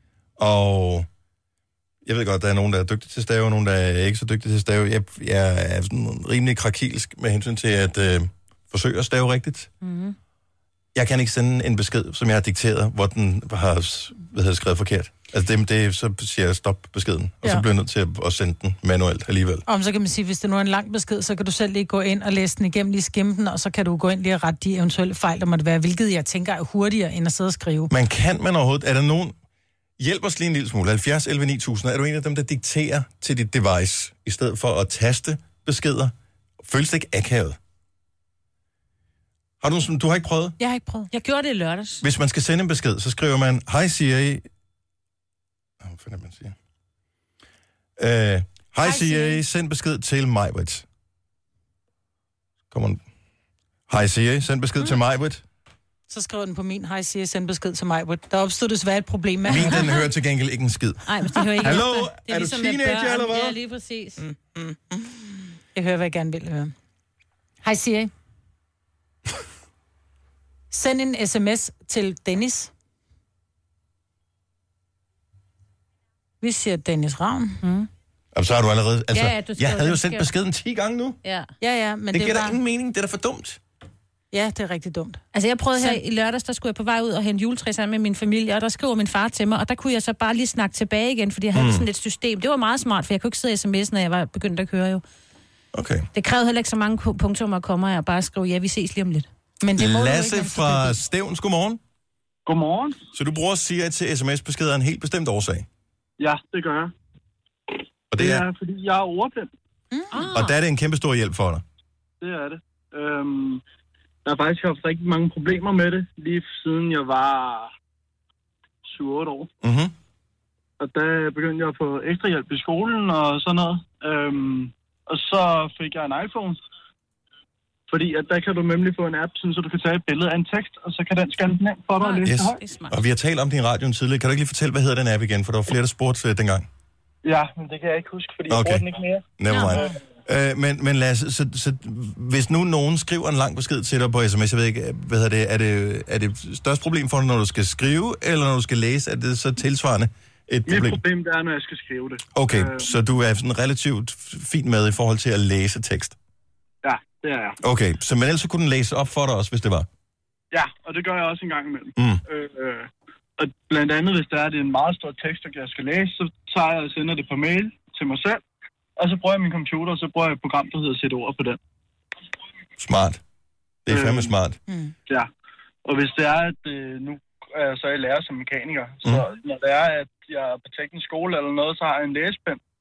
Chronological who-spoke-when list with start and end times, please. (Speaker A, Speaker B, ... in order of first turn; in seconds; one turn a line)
Speaker A: 0.4-1.1
Speaker A: 2.0-9.7
Speaker B: 9.8-10.2
Speaker A: 10.9-19.6
Speaker C: 19.7-27.9
Speaker A: 27.9-29.4
Speaker A: 30.0-37.6
Speaker A: 39.6-40.6
Speaker C: 40.6-41.1
Speaker B: 41.1-42.0
Speaker A: 42.0-44.5
Speaker A: 45.8-46.5
Speaker A: 48.0-50.9
Speaker B: 48.9-49.2
Speaker C: 48.9-49.4
Speaker A: 52.7-53.0
Speaker A: 53.9-55.4
Speaker C: 56.1-59.9
Speaker A: 59.5-61.0
Speaker B: 59.5-59.8
Speaker B: 61.1-64.2
Speaker A: 61.6-63.6
Speaker C: 64.2-66.7
Speaker C: 67.6-68.1
Speaker C: 70.7-72.7
Speaker C: 76.4-77.6
Speaker B: 77.6-77.9
Speaker A: 78.3-81.2
Speaker B: 79.1-80.3
Speaker B: 81.2-81.5
Speaker C: 81.6-82.6
Speaker A: 82.1-83.6
Speaker C: 84.3-85.2
Speaker B: 85.3-95.0
Speaker A: 91.5-91.9
Speaker A: 95.7-96.1
Speaker B: 96.1-99.3
Speaker C: 99.6-101.0
Speaker A: 99.8-101.8
Speaker D: 102.5-103.0
Speaker A: 103.1-105.7
Speaker D: 106.2-106.9
Speaker A: 108.1-108.4
Speaker D: 108.1-109.5
Speaker C: 109.9-110.2
Speaker B: 110.1-110.6
Speaker A: 110.3-111.6
Speaker D: 112.2-113.6
Speaker D: 114.2-117.7
Speaker D: 118.8-119.5
Speaker A: 119.6-119.9
Speaker D: 120.8-126.6
Speaker D: 127.9-132.6
Speaker B: 132.0-133.0
Speaker A: 132.2-136.7
Speaker D: 137.2-139.3
Speaker A: 138.5-138.9
Speaker A: 139.4-151.0
Speaker B: 139.5-139.9
Speaker D: 150.7-153.0
Speaker A: 152.3-156.2
Speaker D: 156.8-157.6
Speaker A: 157.6-159.9
Speaker D: 160.5-168.4
Speaker A: 162.0-162.2
Speaker D: 169.0-171.6
Speaker A: 172.8-173.2
Speaker A: 173.9-174.6
Speaker D: 173.9-174.3
Speaker C: 174.7-174.9
Speaker D: 175.8-182.6